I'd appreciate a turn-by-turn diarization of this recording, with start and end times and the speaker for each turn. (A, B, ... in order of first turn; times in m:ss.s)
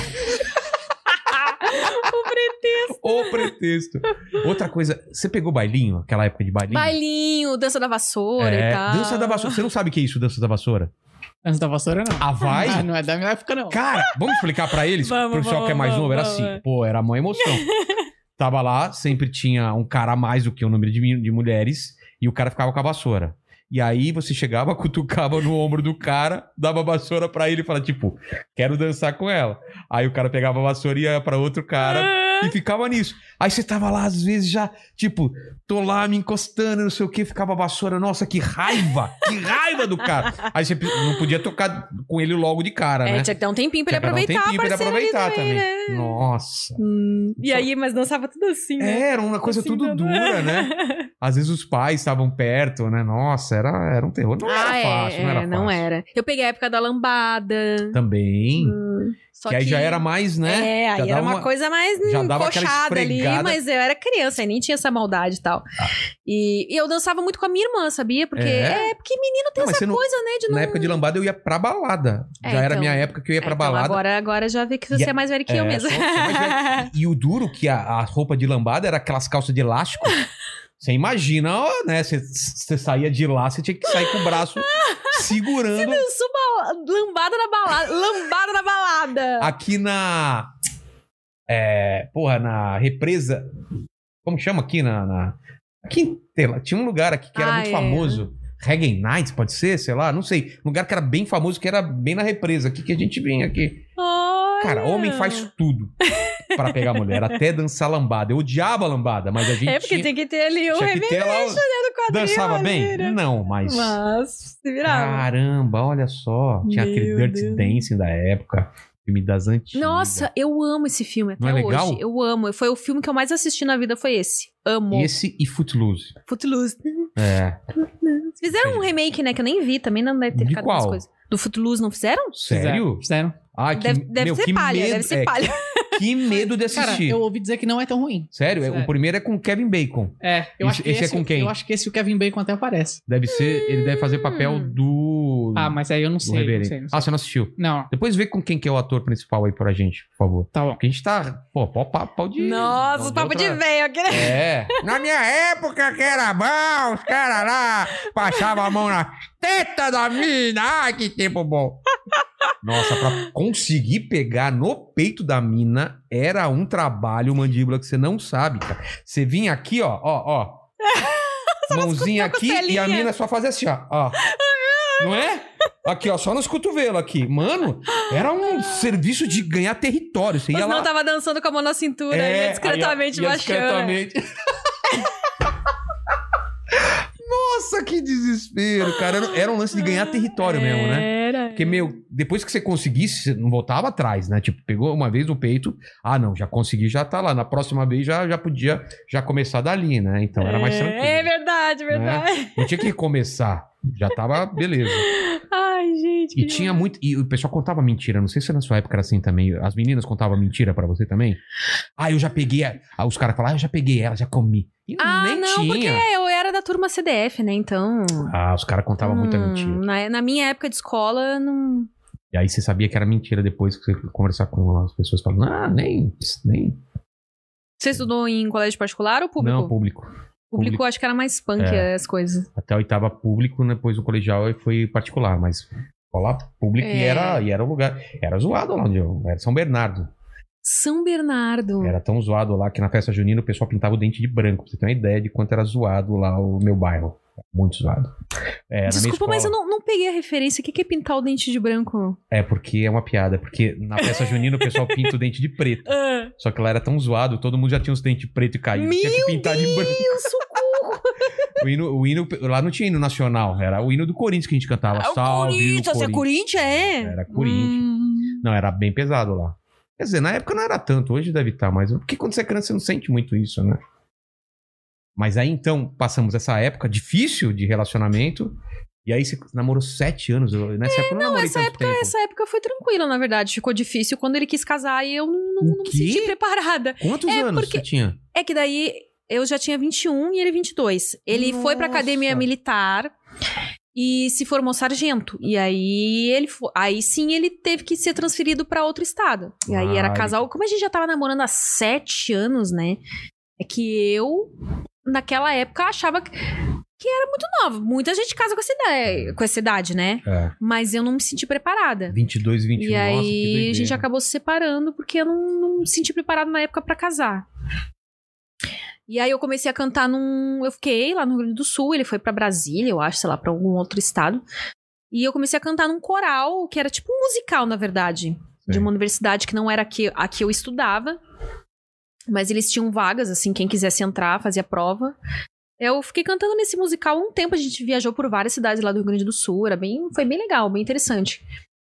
0:01.2-0:03.5 A
0:01.7-0:02.1 B
0:02.9-0:07.0 B
0:06.7-0:09.6 A
0:08.4-0:10.9 B
0:11.4-0:13.8 C
0:12.2-0:12.9 B
0:13.7-0:17.7 B
0:15.0-0:16.6 A
0:17.4-0:18.0 A
0:18.4-0:43.3 B
0:31.8-0:32.5 A
0:40.0-0:40.4 A
0:43.0-0:46.2 A
0:43.9-0:46.8 B
0:46.8-0:51.1 A
0:47.4-0:47.7 B
0:48.8-0:55.8 B
0:54.4-0:58.0 A
0:57.9-0:58.8 B
0:58.6-1:05.6 A
0:59.5-1:01.5 B
1:02.0-1:03.6 B
1:06.2-1:11.0 A
1:08.4-1:08.9 B
1:09.6-1:14.0 B
1:12.4-1:16.9 A
1:14.9-1:20.2 B
1:20.8-1:26.0 B
1:23.9-1:29.5 A
1:29.4-1:30.5 B
1:31.5-1:33.4 B
1:34.2-1:43.8 B
1:37.4-1:38.2 A
1:44.0-1:45.5 A
1:44.6-1:50.1 B
1:46.0-1:47.4 A
1:49.6-1:55.2 A
1:50.7-1:54.0 B
1:54.8-2:00.3 B
1:56.6-1:57.8 A
1:59.7-2:05.1 A
2:01.4-2:02.0 B
2:04.9-2:06.2 B
2:06.3-2:07.1 A
2:07.2-2:07.6 B
2:07.8-2:12.3 A
2:08.5-2:08.9 B
2:10.3-2:11.0 B
2:12.3-2:13.0 B
2:12.5-2:13.4 C
2:13.5-2:17.2 B
2:13.7-2:16.0 A
2:16.7-2:18.9 C
2:18.3-2:21.5 B
2:20.2-2:23.0 C
2:23.1-2:41.8 B
2:23.3-2:24.8 A
2:25.5-2:27.1 C
2:27.6-2:27.9 C
2:30.5-2:30.8 C
2:32.4-2:34.9 A
2:38.4-2:38.7 A
2:42.6-2:50.6 B
2:50.8-2:53.1 A
2:51.7-2:54.2 B
2:54.2-2:55.3 A
2:55.0-3:00.9 B
2:57.9-2:58.9 A
3:00.5-3:04.0 A
3:02.1-3:05.5 B
3:06.8-3:21.3 B
3:09.7-3:11.9 A
3:20.4-3:22.8 A
3:21.9-3:25.1 B
3:24.4-3:26.8 A
3:26.4-3:31.4 B
3:32.0-3:36.1 B
3:35.0-3:38.3 A
3:38.3-3:39.8 B
3:39.0-3:41.9 A
3:42.3-3:46.8 B
3:47.8-3:49.7 A
3:49.4-3:50.8 B
3:50.5-3:52.5 A
3:51.6-3:51.9 B
3:52.6-4:00.1 B
3:56.8-3:57.4 A
4:00.6-4:02.0 A
4:01.8-4:08.1 B
4:08.7-4:09.5 B
4:08.9-4:12.2 A
4:12.3-4:20.6 B
4:14.0-4:15.1 A
4:15.9-4:16.3 A
4:18.7-4:21.3 A
4:21.6-4:27.8 B
4:24.9-4:28.4 A
4:28.4-4:33.8 B
4:35.2-4:38.5 B
4:39.0-4:42.1 B
4:40.8-4:53.1 A
4:45.6-4:46.3 B
4:47.0-4:48.2 B
4:51.3-4:52.4 B
4:53.9-5:03.0 A
4:59.7-5:00.4 B
5:03.6-5:04.5 A
5:05.0-5:06.4 A
5:07.0-5:12.2 A
5:10.2-5:10.5 B
5:12.1-5:14.0 B
5:12.8-5:17.4 A
5:19.1-5:24.4 A
5:25.1-5:31.2 A
5:32.3-5:35.1 A
5:35.8-5:41.4 A